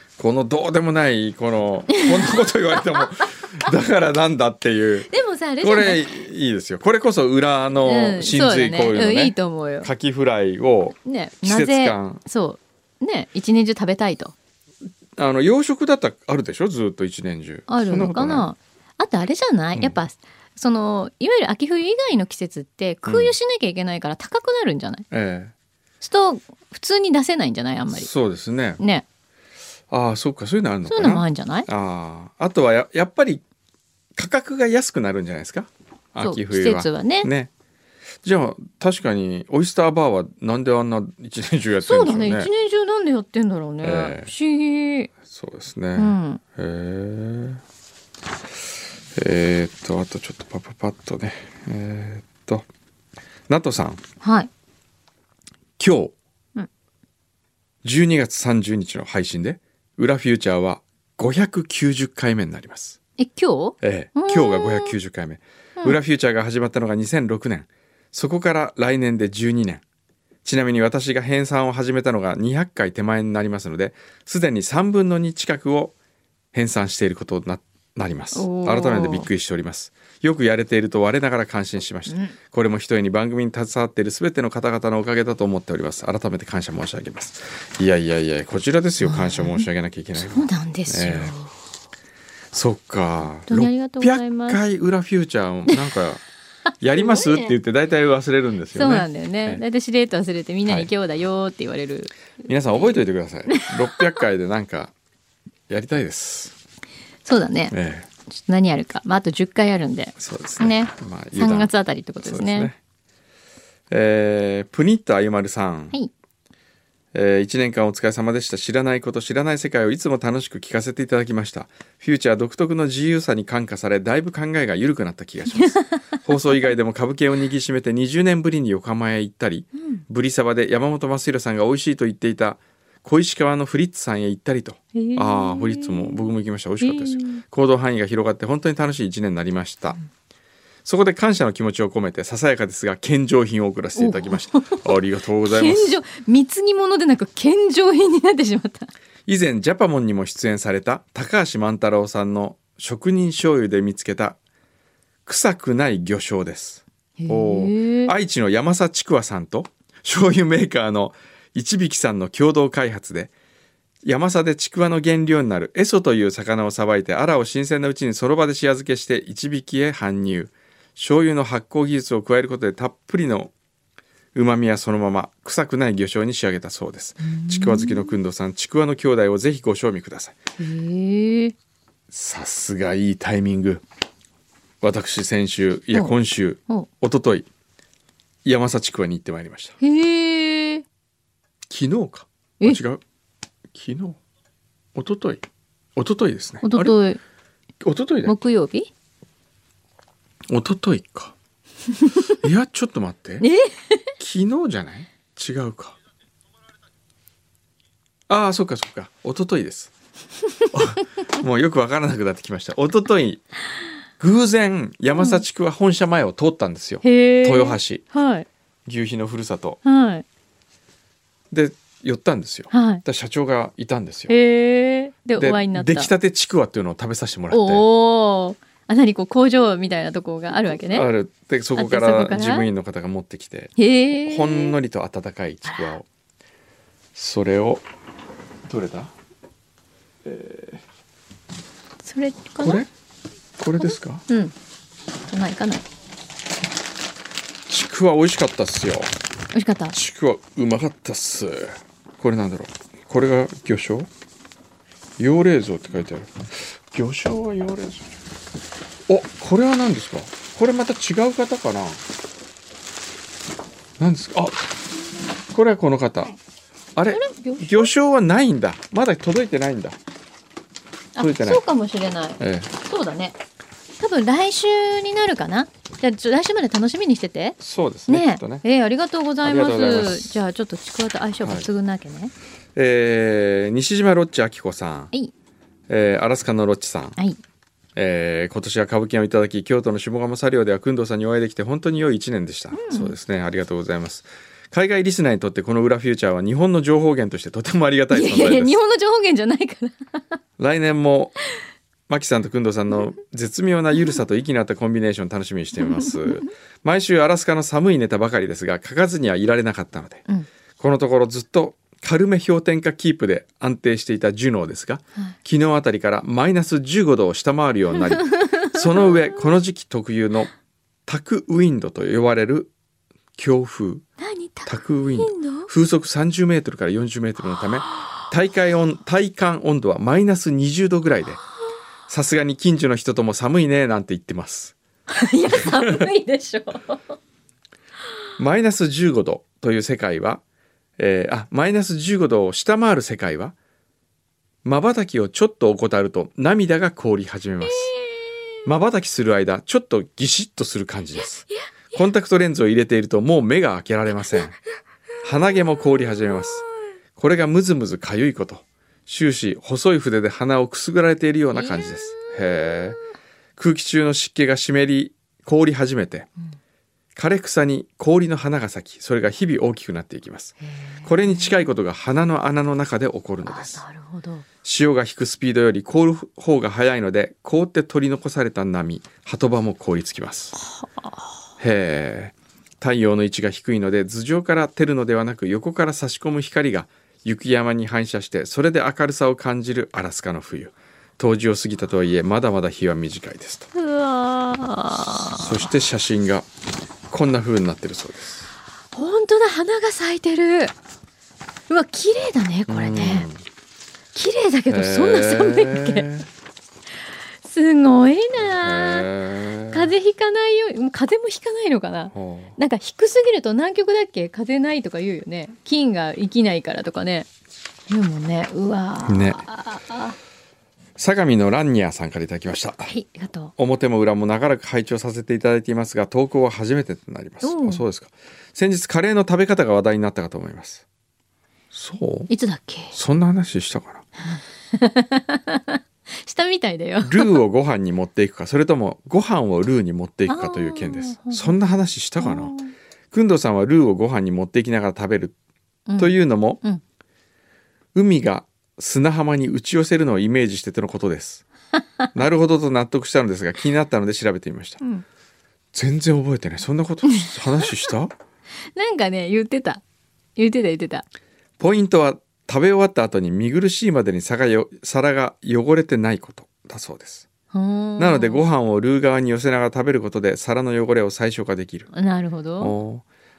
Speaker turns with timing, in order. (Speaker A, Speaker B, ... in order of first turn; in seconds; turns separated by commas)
Speaker A: 0.2-5.1, Speaker B: 1.9-3.5, Speaker B: 5.1-6.1, Speaker A: 5.6-12.2, Speaker B: 7.8-9.9, Speaker B: 11.0-14.3, Speaker A: 15.2-18.5, Speaker B: 17.7-25.0, Speaker A: 23.1-23.3, Speaker A: 25.1-25.5, Speaker B: 26.0-28.1, Speaker A: 27.9-28.8, Speaker B: 28.8-29.0, Speaker A: 29.9-33.4, Speaker B: 30.9-31.7, Speaker A: 34.1-37.5, Speaker B: 36.2-37.3, Speaker A: 38.2-42.5, Speaker B: 41.8-45.1, Speaker A: 43.8-44.3, Speaker A: 45.2-47.6, Speaker B: 46.0-46.4, Speaker A: 49.1-52.7, Speaker A: 53.5-54.0, Speaker B: 54.2-54.5, Speaker A: 55.8-56.1, Speaker A: 57.8-63.0, Speaker B: 63.2-64.9, Speaker A: 63.8-69.8, Speaker A: 70.4-75.9, Speaker A: 76.5-91.3, Speaker B: 78.3-79.3, Speaker B: 82.1-82.3, Speaker B: 89.0-91.5, Speaker A: 92.5-96.2, Speaker B: 93.5-94.6, Speaker A: 96.8-99.6, Speaker B: 96.9-97.5, Speaker B: 98.7-103.0, Speaker A: 102.5-104.9, Speaker B: 103.5-104.0, Speaker A: 105.7-106.5, Speaker B: 107.2-107.7, Speaker A: 107.7-108.1, Speaker B: 108.3-112.7, Speaker A: 110.2-112.8, Speaker A: 113.9-116.0, Speaker A: 117.1-140.0, Speaker B: 125.6-126.2, Speaker B: 129.8-130.0, Speaker B: 134.9-137.4, Speaker A: 140.8-145.9, Speaker B: 143.9-148.9, Speaker A: 149.2-154.4, Speaker A: 155.2-163.3, Speaker B: 157.2-158.1, Speaker A: 164.0-173.5, Speaker A: 174.3-180.3, Speaker B: 177.2-178.1, Speaker B: 180.6-181.5, Speaker A: 182.1-183.8, Speaker A: 184.8-187.5, Speaker A: 188.4-189.8, Speaker B: 189.8-190.8, Speaker A: 191.7-193.0, Speaker A: 193.7-194.2, Speaker A: 194.9-195.4, Speaker A: 195.9-196.9, Speaker B: 196.6-197.2, Speaker A: 197.8-198.3, Speaker B: 198.2-198.9, Speaker A: 200.5-201.3, Speaker B: 202.0-202.4, Speaker A: 202.3-203.4, Speaker B: 203.4-204.1, Speaker A: 204.2-205.9, Speaker A: 208.3-209.9, Speaker A: 210.7-213.4, Speaker A: 214.2-218.0, Speaker B: 215.2-215.4, Speaker B: 217.0-218.4, Speaker A: 218.8-219.8, Speaker B: 219.8-220.2, Speaker A: 221.5-224.3, Speaker B: 222.7-223.0, Speaker B: 224.3-226.1, Speaker A: 225.4-227.8, Speaker B: 227.5-231.1, Speaker A: 230.8-236.1, Speaker B: 231.8-232.7, Speaker B: 233.8-234.7, Speaker A: 237.1-237.8, Speaker A: 238.7-239.1, Speaker A: 240.2-240.8, Speaker B: 242.0-242.8, Speaker A: 242.6-242.9, Speaker A: 243.6-244.2, Speaker B: 243.8-244.5, Speaker B: 245.3-245.8, Speaker A: 247.7-249.1, Speaker B: 249.5-249.9, Speaker A: 249.9-254.1, Speaker A: 255.2-258.2, Speaker A: 259.1-262.0, Speaker A: 264.0-264.6, Speaker A: 265.5-266.3, Speaker A: 266.9-270.0, Speaker B: 267.1-267.9, Speaker B: 271.1-273.4, Speaker A: 271.2-271.6, Speaker A: 272.4-272.7, Speaker B: 274.0-282.3, Speaker A: 277.6-278.6, Speaker A: 279.4-280.3, Speaker A: 282.7-285.1, Speaker A: 285.9-287.2, Speaker A: 287.9-298.8, Speaker B: 292.7-293.1, Speaker B: 298.1-300.4, Speaker A: 300.6-301.3, Speaker A: 302.1-310.2, Speaker B: 305.8-306.5, Speaker A: 310.8-320.5, Speaker B: 318.1-319.1, Speaker A: 321.1-322.7, Speaker A: 323.4-324.0, Speaker B: 324.2-325.7, Speaker A: 324.6-331.4, Speaker A: 332.1-334.7, Speaker B: 335.1-337.0, Speaker A: 335.6-336.0, Speaker A: 338.4-340.4, Speaker A: 341.0-343.5, Speaker A: 344.6-347.9, Speaker B: 347.6-348.6, Speaker A: 348.6-354.6, Speaker A: 355.2-356.6, Speaker B: 356.0-356.4, Speaker A: 357.1-363.0, Speaker B: 361.5-363.1, Speaker A: 363.6-366.3, Speaker A: 367.1-373.8, Speaker B: 370.6-371.6, Speaker B: 373.4-374.4, Speaker A: 374.6-380.5, Speaker B: 380.6-381.3, Speaker A: 381.6-393.7, Speaker B: 393.7-395.7, Speaker A: 395.3-396.5, Speaker A: 397.1-398.5, Speaker B: 398.9-400.7, Speaker B: 401.7-403.3, Speaker A: 402.7-403.4, Speaker B: 404.1-406.1, Speaker A: 404.7-406.3, Speaker B: 407.4-409.1, Speaker A: 408.4-409.9, Speaker B: 409.7-417.3, Speaker A: 412.1-412.6, Speaker B: 417.9-420.1, Speaker A: 419.1-419.4, Speaker A: 421.0-422.9, Speaker B: 422.9-423.5, Speaker A: 423.6-430.8, Speaker B: 427.4-427.8, Speaker A: 431.7-432.3, Speaker B: 432.3-432.9, Speaker A: 432.9-434.1, Speaker B: 434.2-437.4, Speaker A: 437.0-442.5, Speaker B: 440.3-441.6, Speaker B: 442.2-442.7, Speaker A: 443.1-445.3, Speaker B: 445.9-446.8, Speaker A: 446.0-446.6, Speaker A: 447.9-451.4, Speaker A: 452.1-454.8, Speaker A: 455.7-458.1, Speaker B: 457.1-457.7, Speaker B: 458.8-459.8, Speaker B: 460.4-461.1, Speaker A: 461.6-467.3, Speaker B: 467.5-468.4, Speaker A: 468.0-471.9, Speaker B: 471.9-472.8, Speaker A: 472.6-473.0